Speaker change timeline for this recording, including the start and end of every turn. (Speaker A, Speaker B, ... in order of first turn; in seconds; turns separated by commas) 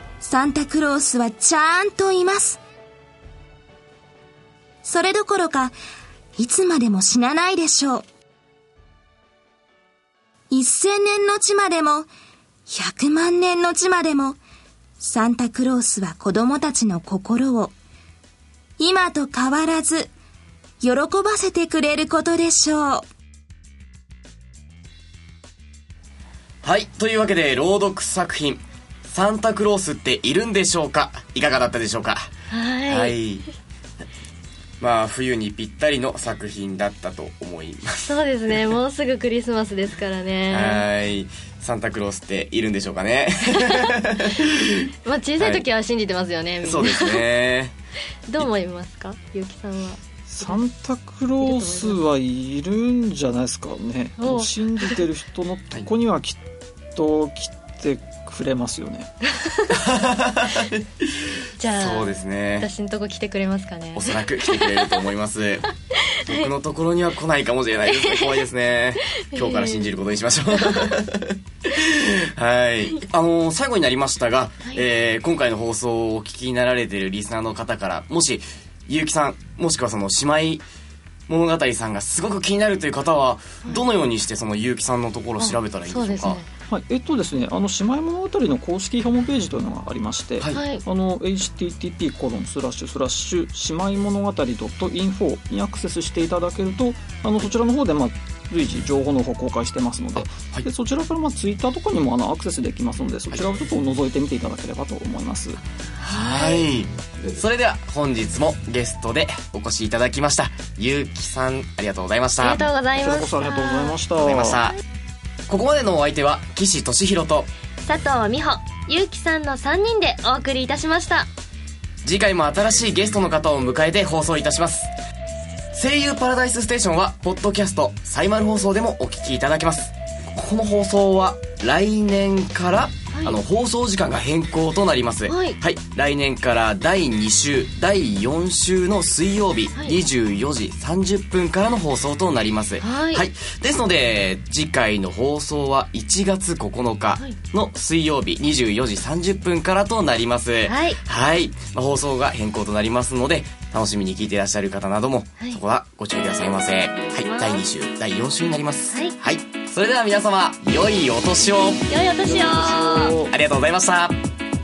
Speaker A: 0.2-2.6, Speaker A: 4.8-5.8, Speaker A: 6.4-8.1, Speaker A: 10.5-12.1, Speaker A: 12.7-14.4, Speaker A: 15.0-17.7, Speaker A: 18.8-20.1, Speaker A: 20.8-23.1, Speaker B: 26.6-32.3, Speaker C: 32.5-33.1, Speaker B: 32.9-33.4, Speaker B: 34.8-38.2, Speaker C: 38.0-40.9, Speaker B: 40.5-44.8, Speaker C: 45.0-47.3, Speaker B: 45.4-45.6, Speaker B: 46.6-47.7, Speaker C: 48.3-50.6, Speaker D: 50.3-56.4, Speaker C: 51.4-52.0, Speaker C: 54.2-55.0, Speaker D: 57.0-59.1, Speaker B: 59.8-60.6, Speaker C: 61.6-65.0, Speaker B: 61.8-62.7, Speaker B: 64.0-65.7, Speaker B: 66.2-80.6, Speaker C: 67.9-68.4, Speaker C: 69.2-69.9, Speaker B: 81.3-86.4, Speaker C: 85.4-86.5, Speaker D: 86.7-105.6, Speaker B: 90.4-90.7, Speaker C: 90.5-90.8, Speaker B: 106.0-112.7, Speaker C: 106.1-106.6, Speaker C: 112.4-114.0, Speaker D: 113.0-114.6, Speaker B: 114.2-114.8, Speaker B: 115.5-117.5, Speaker C: 117.8-121.3, Speaker B: 122.0-124.9, Speaker B: 125.7-161.9, Speaker C: 135.3-135.6, Speaker C: 142.8-143.3, Speaker C: 150.7-151.0, Speaker C: 157.0-157.6, Speaker C: 158.9-159.2, Speaker C: 161.9-163.2, Speaker D: 162.3-163.3, Speaker B: 163.3-164.2